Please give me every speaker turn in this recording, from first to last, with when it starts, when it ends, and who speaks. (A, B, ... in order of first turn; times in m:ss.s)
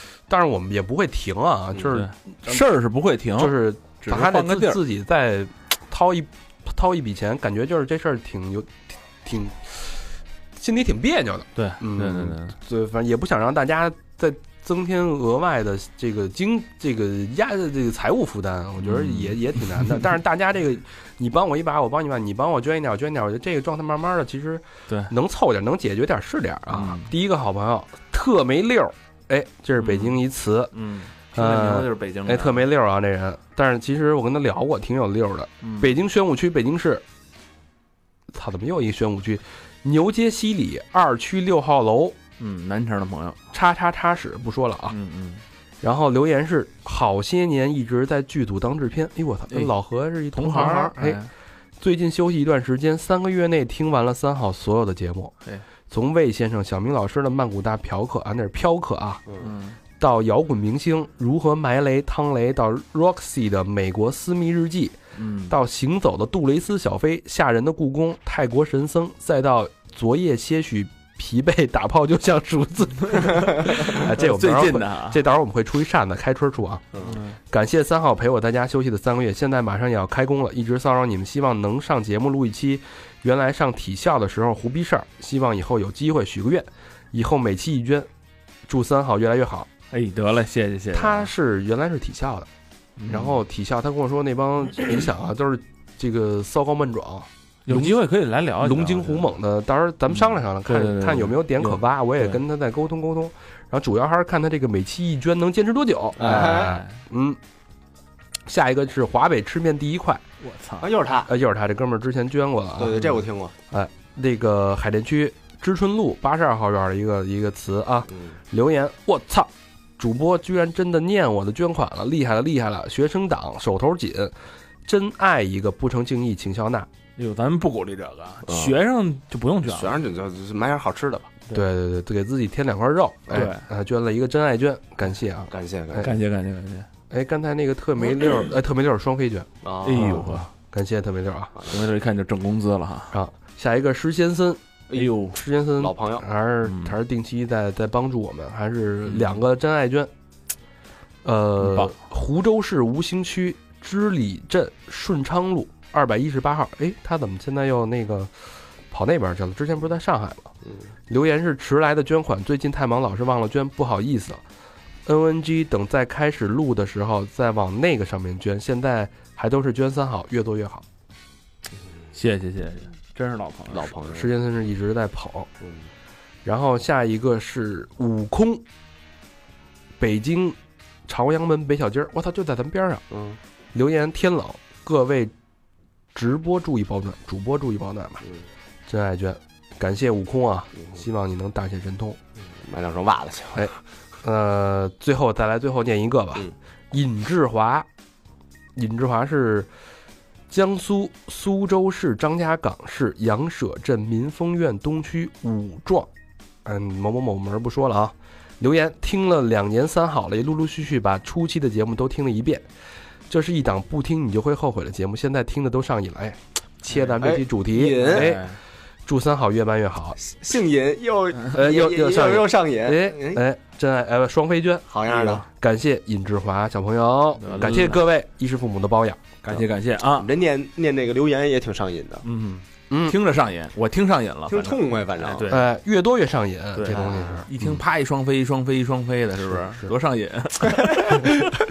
0:00.3-0:02.6 A
0:01.9-0:04.8 B
0:03.4-0:30.7 A
0:11.5-0:12.6 B
0:18.8-0:20.0 B
0:26.7-0:27.1 B
0:29.8-0:30.2 B
0:30.7-0:32.7 B
0:31.3-0:37.0 A
0:35.6-0:36.0 B
0:38.3-0:42.2 A
0:42.4-0:43.4 B
0:43.5-0:45.0 A
0:44.9-0:45.4 B
0:45.8-0:51.2 A
0:50.3-0:51.3 B
0:51.8-0:55.3 A
0:55.9-0:59.2 A
0:59.4-0:59.8 B
1:00.0-1:16.8 A
1:05.2-1:05.5 B
1:13.8-1:15.2 B
1:16.9-1:17.2 C
1:17.1-1:17.3 B
1:17.5-1:28.1 A
1:28.7-1:29.7 A
1:29.9-1:31.3 B
1:30.9-1:32.5 A
1:33.0-1:33.4 B
1:33.1-1:38.0 A
1:37.6-1:39.3 B
1:38.6-1:47.4 A
1:40.1-1:42.4 B
1:46.2-1:46.8 C
1:46.2-1:47.0 B
1:48.5-1:50.2 A
1:50.4-1:50.9 B
1:50.8-1:51.3 C
1:51.3-1:53.2 A
1:52.8-1:53.5 C
1:53.7-2:04.3 A
2:04.8-2:06.9 A
2:07.2-2:10.0 B
2:08.4-2:08.7 C
2:09.6-2:11.3 C
2:11.5-2:16.1 A
2:13.3-2:13.6 B
2:15.5-2:16.1 C
2:16.0-2:16.9 B
2:17.1-2:21.5 A
2:19.6-2:20.3 C
2:19.8-2:20.5 B
2:21.5-2:21.8 C
2:21.7-2:23.1 B
2:23.1-2:24.6 A
2:24.9-2:25.4 B
2:25.2-2:30.1 A
2:25.8-2:26.2 C
2:26.6-2:27.0 B
2:29.0-2:29.4 B
2:31.2-2:40.5 A
2:31.6-2:31.9 B
2:41.1-2:44.4 A
2:45.0-2:50.8 A
2:52.1-2:53.9 B
2:53.7-2:54.3 C
2:54.1-2:55.5 A
2:55.6-2:55.9 C
2:56.4-2:58.6 A
3:00.0-3:03.0 A
3:03.1-3:03.4 C
3:03.7-3:05.3 A
3:06.1-3:08.2 A
3:08.9-3:12.2 A
3:12.4-3:13.7 C
3:13.6-3:17.9 A
3:18.8-3:19.7 A
3:20.5-3:26.1 A
3:26.6-3:32.7 A
3:33.3-3:40.2 A
3:37.2-3:38.4 C
3:37.9-3:38.6 B
3:40.2-3:43.4 C
3:41.5-3:49.6 A
3:44.9-3:45.4 C
3:45.1-3:45.4 B
3:47.4-3:48.0 B
3:49.5-3:50.3 B
3:50.1-3:52.2 C
3:52.2-3:55.7 B
3:52.9-3:53.2 A
3:54.5-3:55.5 C
3:55.5-3:57.8 A
3:56.7-4:01.4 B
3:56.9-3:57.4 C
3:59.5-3:59.9 A
4:00.6-4:01.3 C